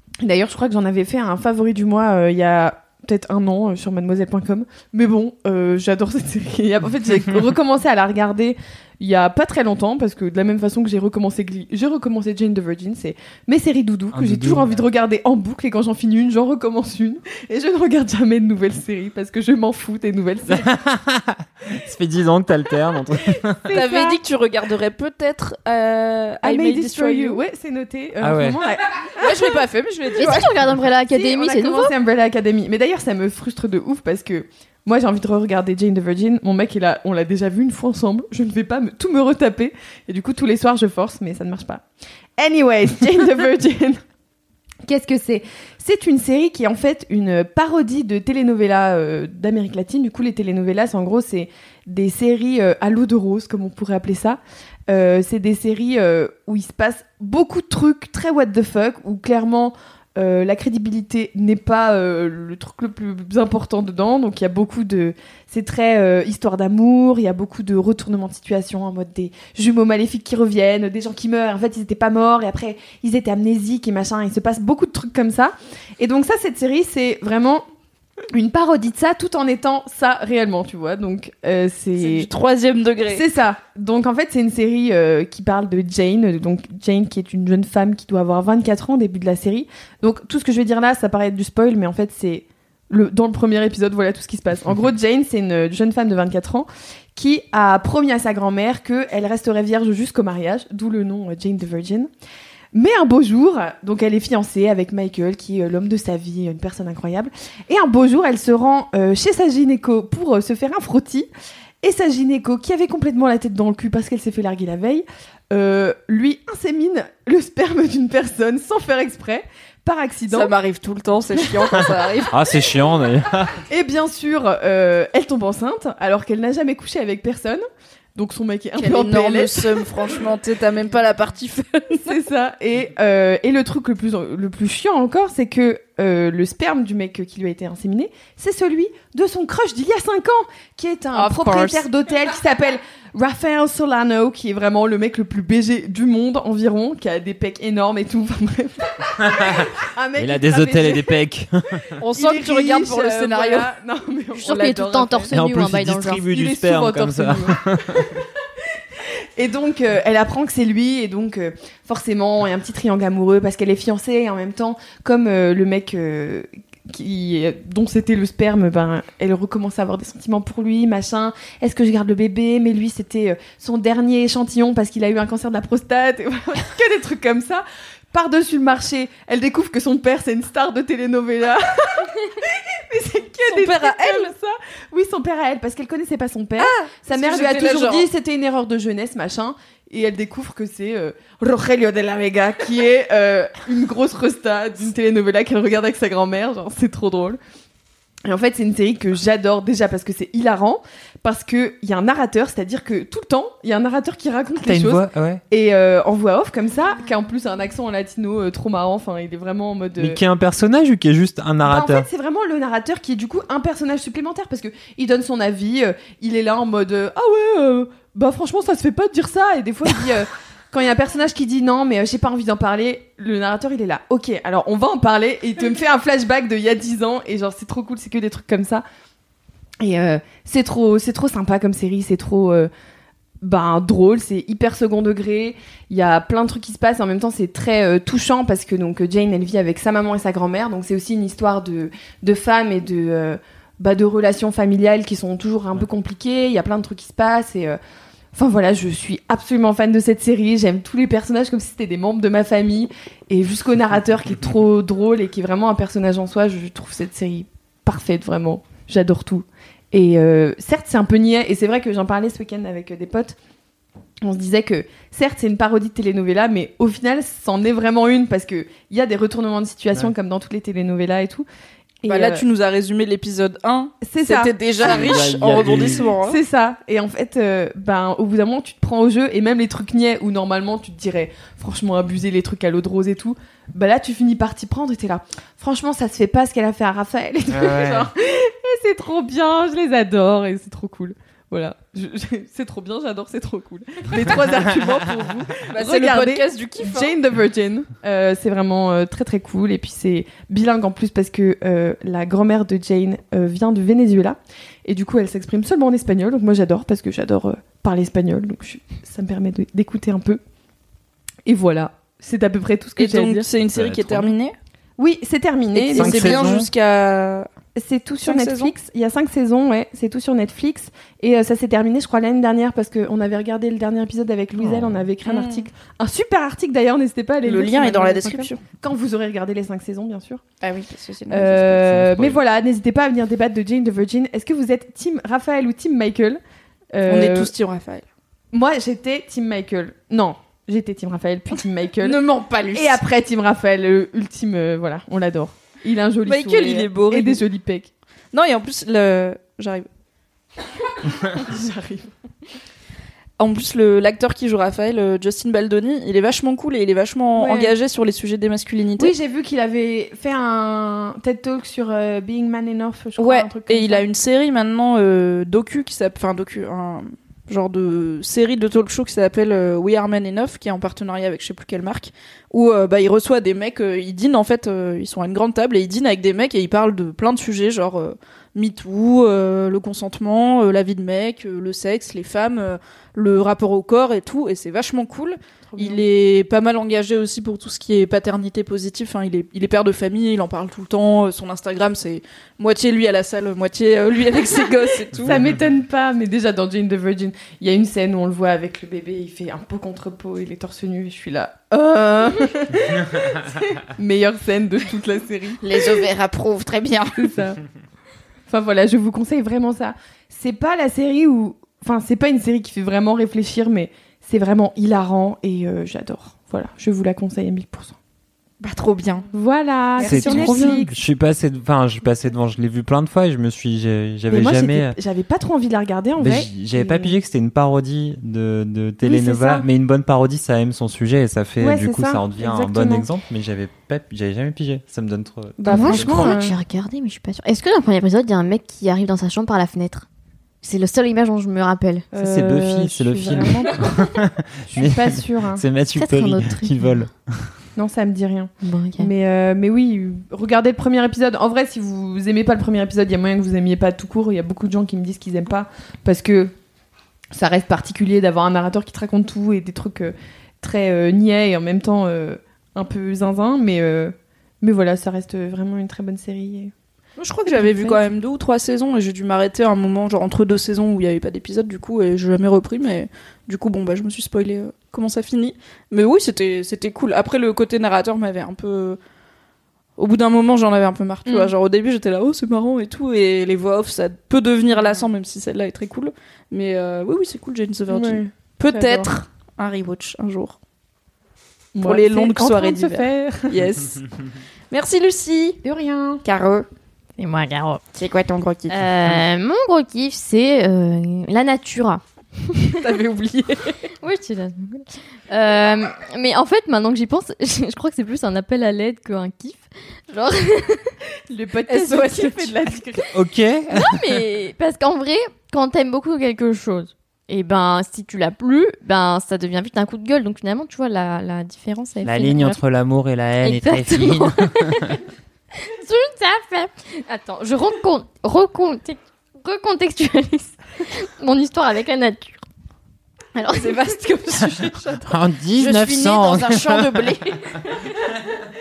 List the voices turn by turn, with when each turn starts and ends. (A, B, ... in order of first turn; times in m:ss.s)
0:00.2-0:20.7 A
0:14.1-0:14.8 B
0:20.5-0:23.8 B
0:23.7-0:24.2 A
0:23.7-0:27.4 C
0:26.4-0:29.6 A
0:28.2-0:28.6 B
0:29.2-0:30.5 C
0:30.1-0:41.8 A
0:30.2-0:31.9 D
0:42.4-0:44.0 A
0:44.8-1:17.6 A
1:18.3-1:22.3 A
1:22.0-1:23.2 C
1:23.1-1:42.1 A
1:42.7-1:51.3 A
1:51.8-2:00.5 A
2:00.3-2:02.3 C
2:01.4-2:01.9 A
2:02.3-2:03.6 B
2:03.7-2:09.9 A
2:08.8-2:12.1 C
2:12.0-2:31.2 A
2:21.1-2:21.8 C
2:29.2-2:31.8 B
2:32.0-2:33.7 C
2:32.1-2:35.3 A
2:34.4-2:36.2 D
2:35.3-2:38.1 B
2:36.2-2:38.1 A
2:39.4-3:17.4 A
3:03.4-3:04.3 C
3:06.6-3:08.1 C
3:18.2-3:30.2 A
3:24.6-3:25.4 B
3:30.0-3:32.1 B
3:31.6-3:48.8 A
3:49.8-3:52.7 A
3:53.4-4:07.8 A
4:08.3-4:23.4 A
4:24.2-4:31.4 A
4:32.0-4:32.4 A
4:32.1-4:36.4 C
4:34.0-5:10.4 A
4:34.9-4:36.1 B
4:47.5-4:48.1 B
4:54.5-4:55.0 B
4:55.7-4:57.2 C
5:11.4-5:13.4 A
5:13.0-5:14.5 C
5:13.7-5:14.3 B
5:15.0-5:16.6 A
5:15.7-5:17.5 C
5:15.9-5:16.7 B
5:17.7-5:30.4 A
5:18.2-5:18.7 C
5:24.6-5:25.1 B
5:25.2-5:25.6 C
5:27.4-5:28.6 C
5:30.6-5:31.8 C
5:31.3-5:36.4 A
5:31.8-5:32.4 B
5:36.9-5:37.5 A
5:37.1-5:38.0 C
5:38.5-5:42.2 A
5:42.0-5:43.0 C
5:42.7-5:47.9 A
5:46.2-5:47.4 C
5:48.3-5:49.8 C
5:51.3-5:52.1 A
5:53.4-5:59.1 C
5:57.4-5:57.7 A
5:59.0-6:04.1 A
6:03.2-6:35.4 C
6:25.7-6:26.0 A
6:35.2-6:46.0 A
6:45.6-6:47.2 C
6:47.2-6:47.6 A
6:48.5-6:57.9 A
6:58.6-6:59.3 C
6:59.3-7:00.9 A
7:00.0-7:00.7 C
7:00.0-7:05.0 B
7:04.3-7:07.2 A
7:06.2-7:16.4 B
7:09.0-7:09.6 A
7:11.6-7:13.1 A
7:15.6-7:16.6 A
7:15.7-7:20.0 D
7:20.6-7:22.0 D
7:22.1-7:24.0 A
7:22.1-7:27.5 B
7:24.7-7:25.6 A
7:26.0-7:26.8 D
7:27.8-7:36.5 A
7:28.6-7:29.1 D
7:37.3-7:46.7 A
7:47.2-7:59.0 C
7:47.5-7:48.0 A
8:00.0-8:10.6 C
8:01.3-8:01.5 D
8:07.9-8:09.1 A
8:11.7-8:13.6 A
8:11.8-8:14.0 C
8:14.7-8:15.6 C
8:15.6-8:16.2 A
8:16.2-8:16.7 C
8:17.2-8:17.8 D
8:17.9-8:18.8 C
8:18.7-8:22.7 D
8:22.8-8:23.8 C
8:24.0-8:30.9 D
8:31.3-8:33.1 A
8:31.7-8:32.5 C
8:33.1-8:34.2 B
8:33.7-8:42.6 D
8:42.0-8:45.0 B
8:43.4-8:45.0 D
8:45.6-8:52.4 D
8:53.4-8:53.8 D
8:53.5-8:57.4 C
8:55.1-8:57.2 B